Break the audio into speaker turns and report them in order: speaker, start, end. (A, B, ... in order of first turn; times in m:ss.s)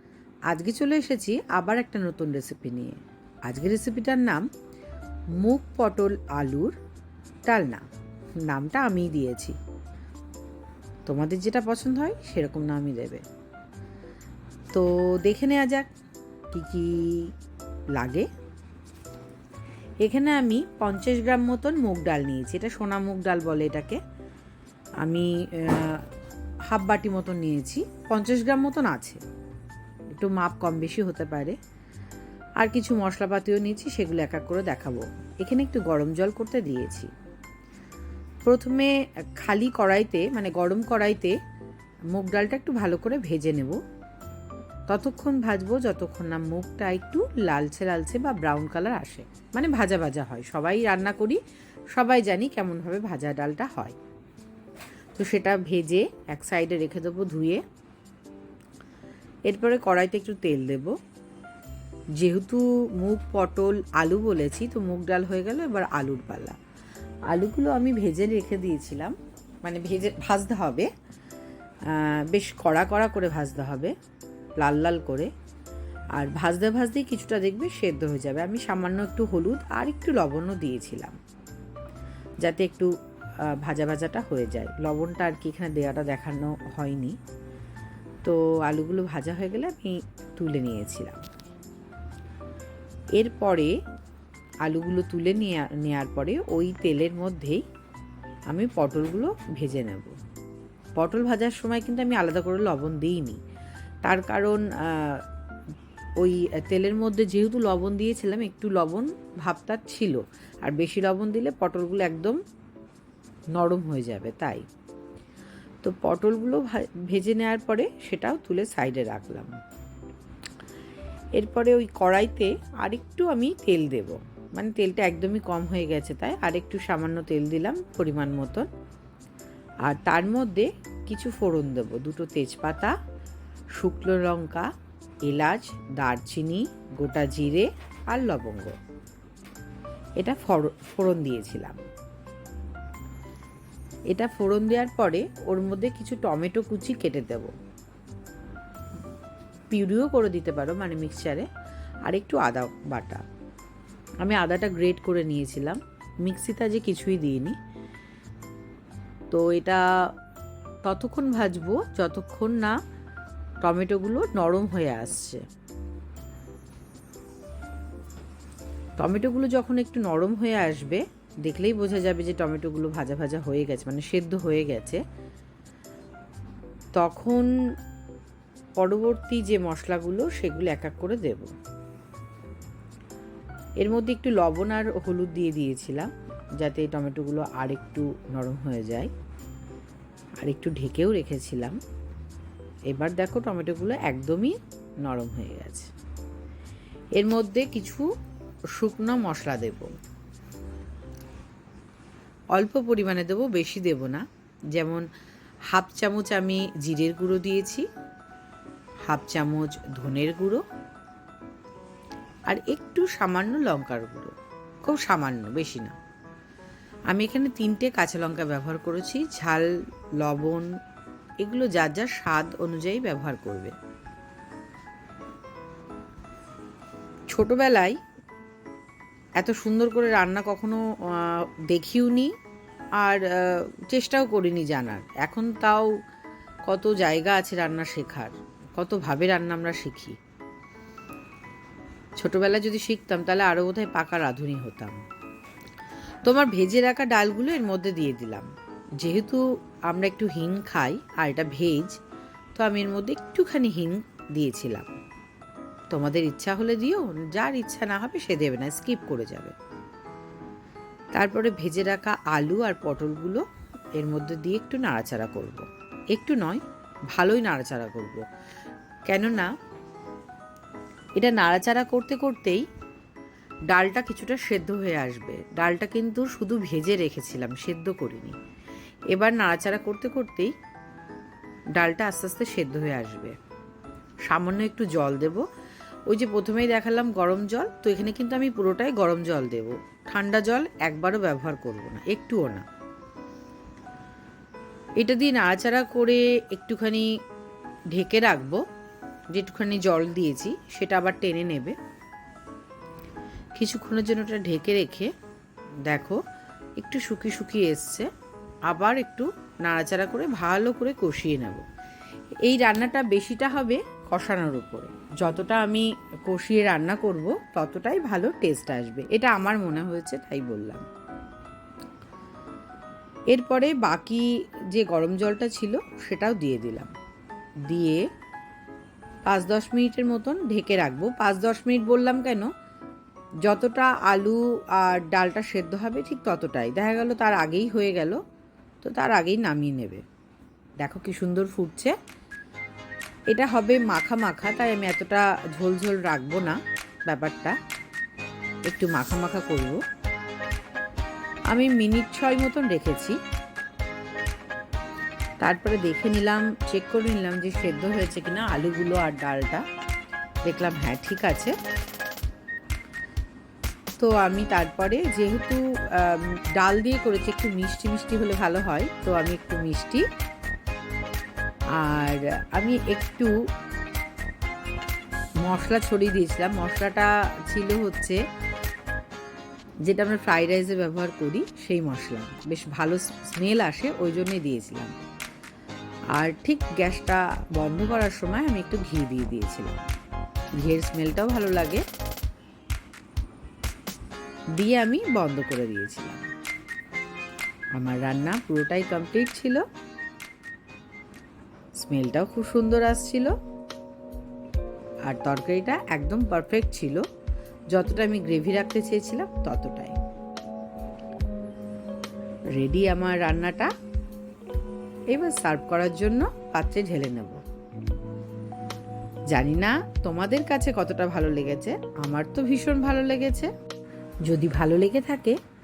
0:00.5-0:04.5 A
0:05.4-0:06.8 A
0:07.5-0:07.8 A
0:08.4-0:09.6 A
0:11.1-0:13.2 A
0:14.7-0:15.9 A
0:16.5-0:17.3 A
0:18.0-0:18.3 A
0:20.0-0:24.0 A
0:25.0-0:26.1 A
0:26.7-0:29.2 A
0:30.2-0:31.6 A
0:32.6-0:37.1 A
0:38.4-0:41.4 A
0:42.1-0:43.8 A
0:44.9-0:51.4 A
0:52.0-0:54.0 A
0:55.2-0:57.6 A
0:59.5-1:01.0 A
1:02.2-1:06.6 A
1:07.3-1:10.9 A
1:11.8-1:13.9 A
1:14.6-1:15.3 A
1:16.2-1:21.2 A
1:22.4-1:22.9 A
1:23.5-1:27.2 A
1:28.2-1:31.2 A
1:33.2-1:33.8 A
1:34.7-1:37.6 A
1:38.5-1:40.2 A
1:41.0-1:43.4 A
1:44.0-1:45.2 A
1:46.2-1:52.4 A
1:53.6-1:54.6 A
1:55.8-1:59.5 A
2:01.4-2:08.7 A
2:09.8-2:13.0 A
2:13.8-2:14.7 A
2:15.3-2:18.8 A
2:20.2-2:21.8 A
2:24.1-2:27.5 A
2:29.7-2:31.5 A
2:32.1-2:33.2 A
2:34.2-2:37.6 A
2:39.3-2:39.8 A
2:40.8-2:42.8 A
2:43.6-2:45.4 A
2:49.0-2:55.0 A
2:57.0-2:57.5 A
2:58.8-3:01.5 A
3:03.8-3:09.1 A
3:10.4-3:11.8 A
3:12.9-3:15.9 A
3:17.2-3:18.1 A
3:18.8-3:19.9 A
3:22.6-3:25.1 A
3:25.7-3:27.9 A
3:29.1-3:30.6 A
3:32.5-3:34.4 A
3:34.9-3:36.0 A
3:37.1-3:40.7 A
3:41.4-3:43.8 A
3:47.3-3:48.0 A
3:49.4-3:52.3 A
3:53.0-3:55.9 A
3:56.7-4:00.2 A
4:02.2-4:05.0 A
4:06.2-4:08.5 A
4:09.0-4:12.0 A
4:12.6-4:15.0 A
4:15.9-4:19.6 A
4:21.2-4:23.4 A
4:24.0-4:28.2 A
4:29.1-4:29.5 A
4:31.2-4:32.7 A
4:33.7-4:38.4 A
4:39.1-4:40.5 A
4:41.8-4:43.4 A
4:44.3-4:45.4 A
4:46.1-4:52.7 A
4:55.0-4:57.1 A
4:57.9-4:58.6 A
4:59.3-5:01.8 A
5:03.6-5:05.1 A
5:05.8-5:06.2 A
5:06.8-5:08.1 A
5:08.7-5:11.7 A
5:12.4-5:20.9 A
5:23.3-5:26.9 A
5:27.7-5:28.1 A
5:29.3-5:32.5 A
5:33.5-5:38.2 A
5:38.8-5:40.0 A
5:40.8-5:42.0 A
5:43.3-5:47.6 A
5:48.7-5:49.8 A
5:51.5-5:53.2 A
5:55.4-5:59.7 A
6:00.4-6:01.6 A
6:04.0-6:10.1 A
6:11.8-6:13.4 A
6:15.4-6:18.2 A
6:19.8-6:25.0 A
6:26.1-6:29.8 A
6:30.6-6:31.8 A
6:34.6-6:36.3 A
6:37.8-6:39.6 A
6:41.8-6:43.3 A
6:45.0-6:47.0 A
6:47.7-6:50.0 A
6:52.5-6:53.7 A
6:55.1-6:57.4 A
6:59.3-7:03.5 A
7:04.3-7:05.4 A